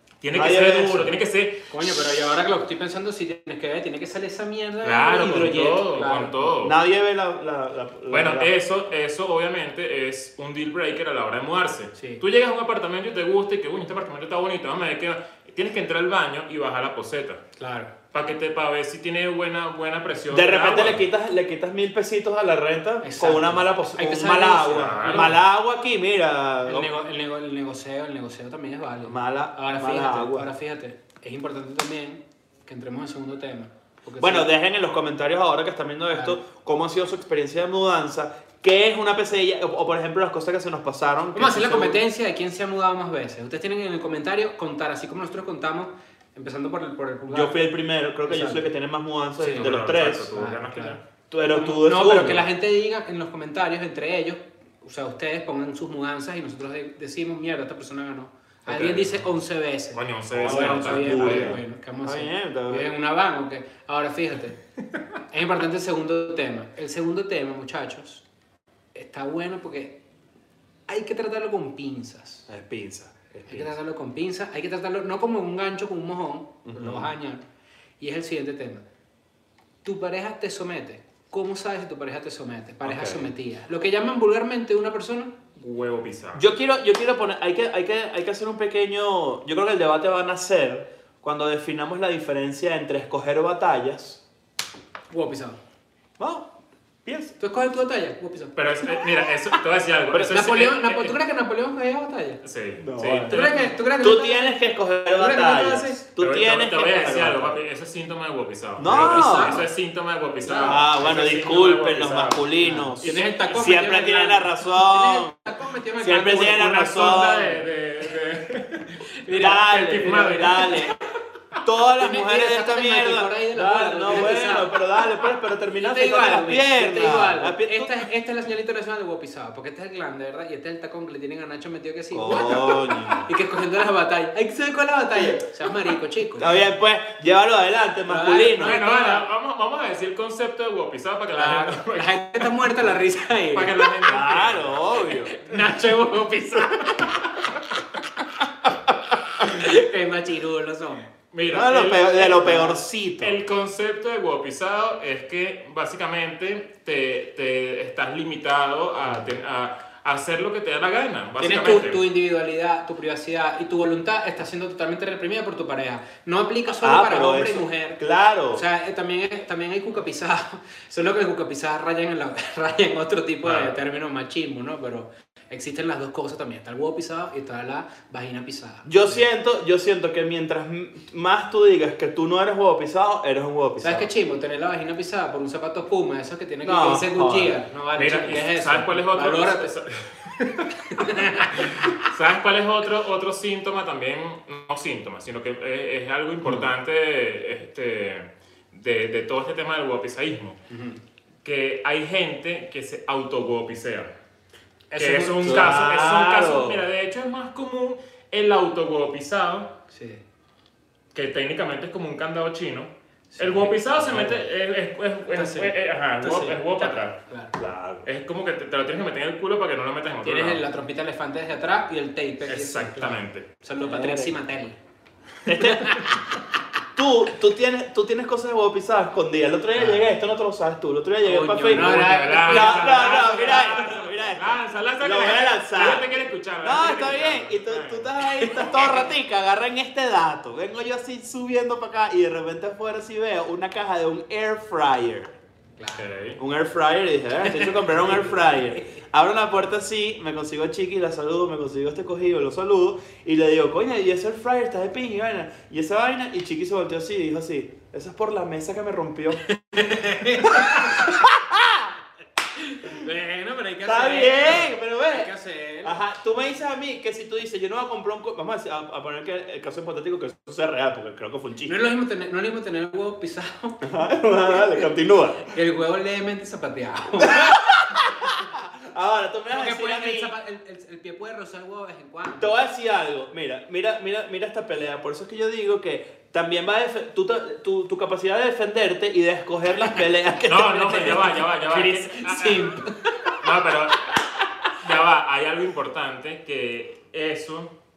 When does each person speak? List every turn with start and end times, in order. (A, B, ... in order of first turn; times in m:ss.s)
0:00.2-0:02.2 A
0:00.3-0:01.1 B
0:01.7-0:06.5 C
0:04.8-0:06.8 A
0:06.6-0:08.5 B
0:08.1-0:17.4 A
0:12.0-0:12.2 C
0:17.6-0:17.9 C
0:18.1-0:21.0 A
0:20.3-0:26.9 B
0:23.0-0:25.4 C
0:24.7-0:25.4 A
0:26.6-0:34.5 C
0:29.0-0:30.5 B
0:34.2-0:42.0 B
0:36.1-0:36.4 C
0:41.3-0:47.6 C
0:47.3-0:50.3 B
0:48.2-0:48.6 C
0:49.4-0:49.7 C
0:49.5-0:51.0 A
0:50.3-0:51.0 C
0:51.3-0:52.5 B
0:51.5-1:04.6 C
0:58.7-0:59.2 A
0:59.9-1:01.6 A
1:00.3-1:02.9 B
1:05.3-1:08.2 C
1:08.9-1:10.0 C
1:10.9-1:12.5 C
1:12.5-1:13.7 B
1:13.4-1:17.4 C
1:16.6-1:17.1 B
1:18.0-1:18.8 C
1:19.8-1:25.4 C
1:22.8-1:23.3 B
1:25.6-1:26.4 A
1:26.3-1:34.2 B
1:35.1-1:35.6 C
1:36.2-1:36.5 B
1:37.0-1:37.3 B
1:37.4-1:38.6 C
1:38.5-1:41.2 A
1:40.2-1:42.4 C
1:42.4-1:43.7 A
1:42.8-1:43.5 B
1:43.3-1:46.0 C
1:44.0-1:47.6 B
1:46.2-1:52.5 A
1:48.8-1:49.6 B
1:48.9-1:49.6 C
1:50.4-1:50.8 C
1:50.6-1:55.3 B
1:52.6-1:56.7 C
1:53.0-1:53.7 A
1:56.0-1:57.6 B
1:56.4-2:00.8 A
1:59.2-2:01.0 C
1:59.3-2:00.9 B
2:01.6-2:08.0 B
2:02.0-2:04.8 C
2:05.8-2:16.5 C
2:12.1-2:13.3 B
2:16.4-2:18.8 B
2:18.1-2:19.2 C
2:18.6-2:23.0 A
2:21.3-2:24.1 C
2:23.5-2:25.1 A
2:24.0-2:25.4 B
2:25.1-2:27.5 C
2:29.4-2:31.0 C
2:31.3-2:42.0 A
2:31.5-2:33.4 B
2:32.4-2:32.8 C
2:41.4-2:48.0 C
2:46.7-2:48.6 B
2:48.5-2:59.2 C
2:53.4-2:53.7 A
2:58.8-3:04.1 B
3:03.8-3:09.7 C
3:06.6-3:07.6 B
3:07.9-3:10.7 A
3:10.8-3:12.1 C
3:11.5-3:20.6 A
3:20.7-3:21.0 C
3:21.4-3:24.1 A
3:24.9-3:25.7 C
3:25.0-3:29.7 A
3:25.4-3:26.8 B
3:29.9-3:30.2 C
3:31.1-3:37.2 A
3:33.3-3:33.8 C
3:34.0-3:34.4 B
3:35.3-3:37.6 C
3:37.6-3:38.1 B
3:38.0-3:40.6 A
3:40.2-3:44.8 C
3:42.4-3:43.5 A
3:43.8-3:44.4 B
3:45.4-3:46.2 B
3:45.5-3:46.2 C
3:46.9-4:05.3 B
3:49.8-3:50.0 C
3:51.2-3:53.8 C
3:51.7-3:59.0 A
3:58.4-3:58.9 C
4:05.8-4:06.0 C
4:06.0-4:06.4 A
4:06.4-4:19.4 B
4:07.5-4:08.9 C
4:19.4-4:21.1 C
4:20.4-4:21.9 B
4:22.5-4:26.0 C
4:23.8-4:25.3 B
4:25.8-4:31.8 B
4:31.6-4:33.9 C
4:33.8-4:35.4 B
4:35.5-4:37.6 C
4:37.2-4:40.3 B
4:39.5-4:42.6 C
4:42.4-4:51.4 B
4:50.5-4:52.8 A
4:51.7-4:53.4 C
4:53.3-4:54.2 A
4:54.7-4:57.7 A